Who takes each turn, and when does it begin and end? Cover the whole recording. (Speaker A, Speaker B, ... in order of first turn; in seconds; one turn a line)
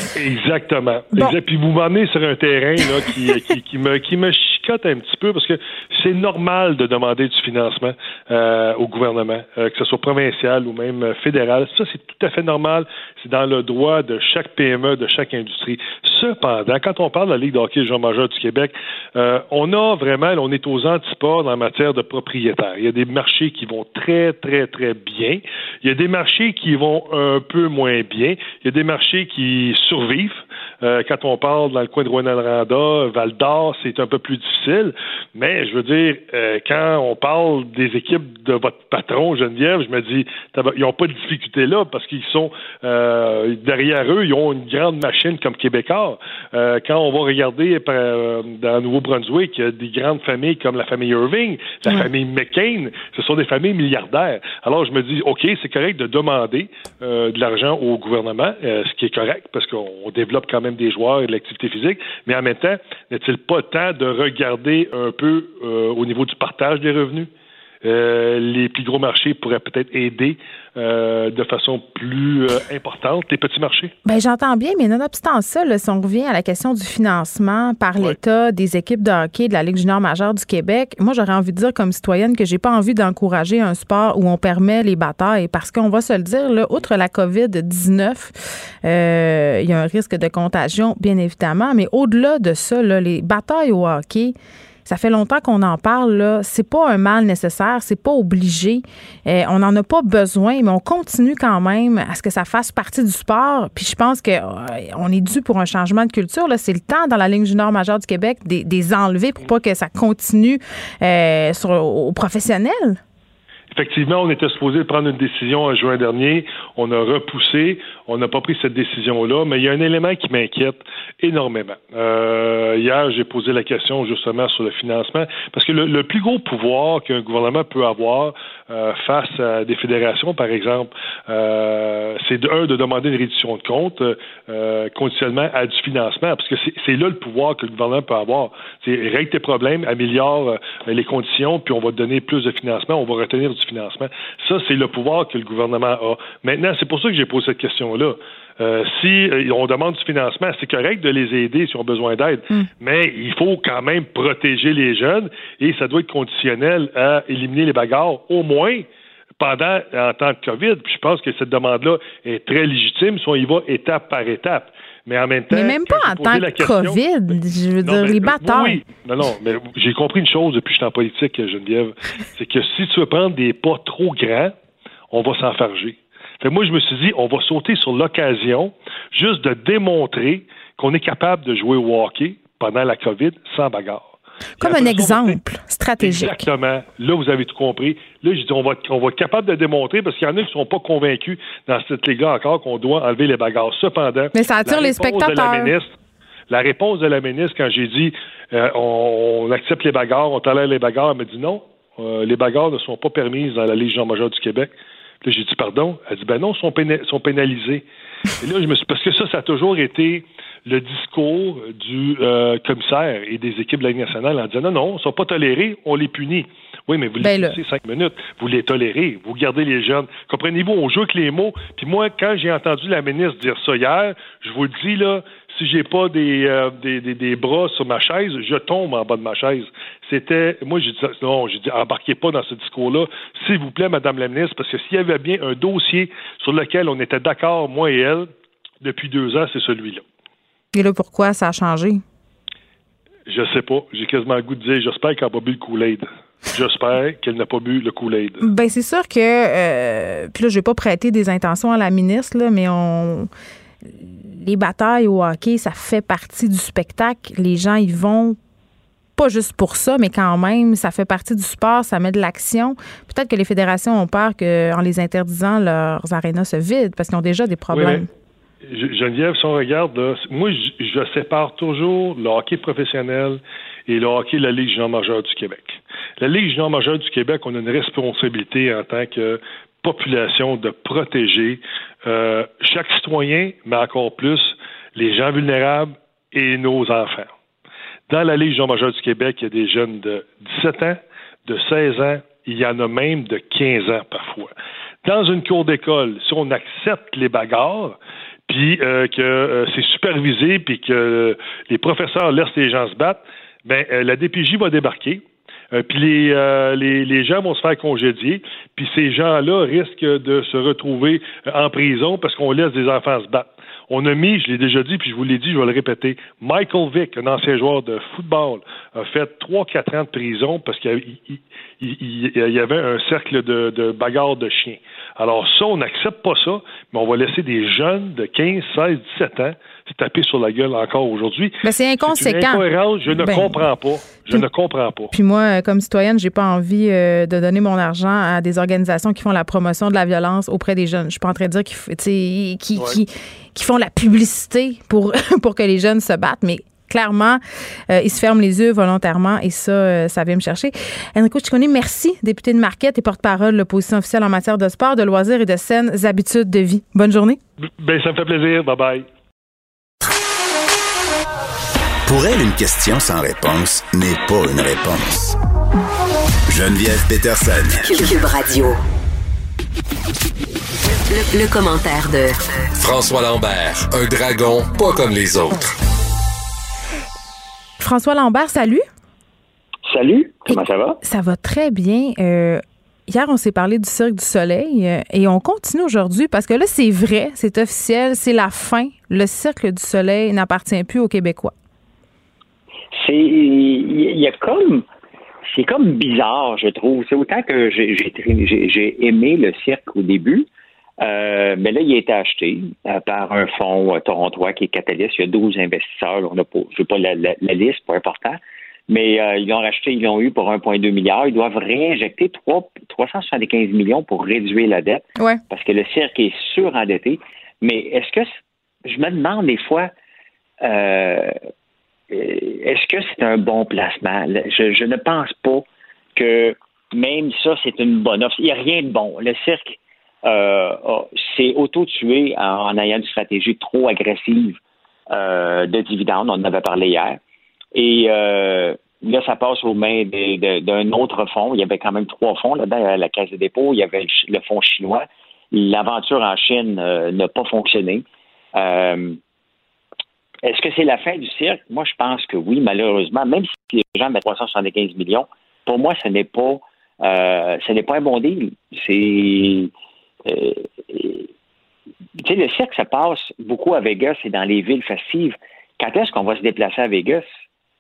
Speaker A: 0.2-67.3
Speaker A: 67.8-73.9
Speaker B: 74.0-88.3
Speaker B: 88.8-94.3
Speaker B: 94.9-113.0
Speaker A: 113.7-158.9
Speaker A: 159.4-174.5
Speaker B: 165.5-168.8
Speaker A: 175.1-184.1
Speaker A: 184.6-185.4
Speaker B: 184.6-186.5
Speaker A: 186.0-195.9
Speaker B: 194.3-195.7
Speaker A: 196.5-204.7
Speaker A: 205.2-207.8
Speaker A: 208.4-238.3
Speaker B: 217.2-217.6
Speaker A: 238.8-240.0
Speaker B: 240.7-242.0
Speaker A: 243.3-248.5
Speaker B: 248.4-253.3
Speaker B: 254.0-258.4
Speaker B: 259.2-268.1
Speaker A: 267.7-268.1
Speaker A: 268.6-287.3
Speaker A: 288.1-294.5
Speaker A: 295.0-335.1
Speaker B: 331.6-333.6
Speaker B: 335.1-357.4
Speaker A: 357.7-359.1
Speaker C: 362.1-365.4
Speaker C: 366.5-367.8
Speaker D: 367.9-368.8
Speaker D: 371.1-372.5
Speaker E: 372.8-375.7
Speaker B: 377.8-378.8
Speaker F: 379.9-381.0
Speaker B: 380.5-391.5
Speaker F: 393.0-394.9
Speaker F: 395.5-400.5
Speaker F: 401.0-418.3
Speaker F: 418.9-419.9
Speaker F: 420.6-421.4
Speaker F: 422.1-434.6
Speaker F: 435.1-437.2
Speaker F: 437.8-449.2
Speaker F: 450.4-459.7
Speaker F: 460.3-461.3
Speaker F: 462.2-467.3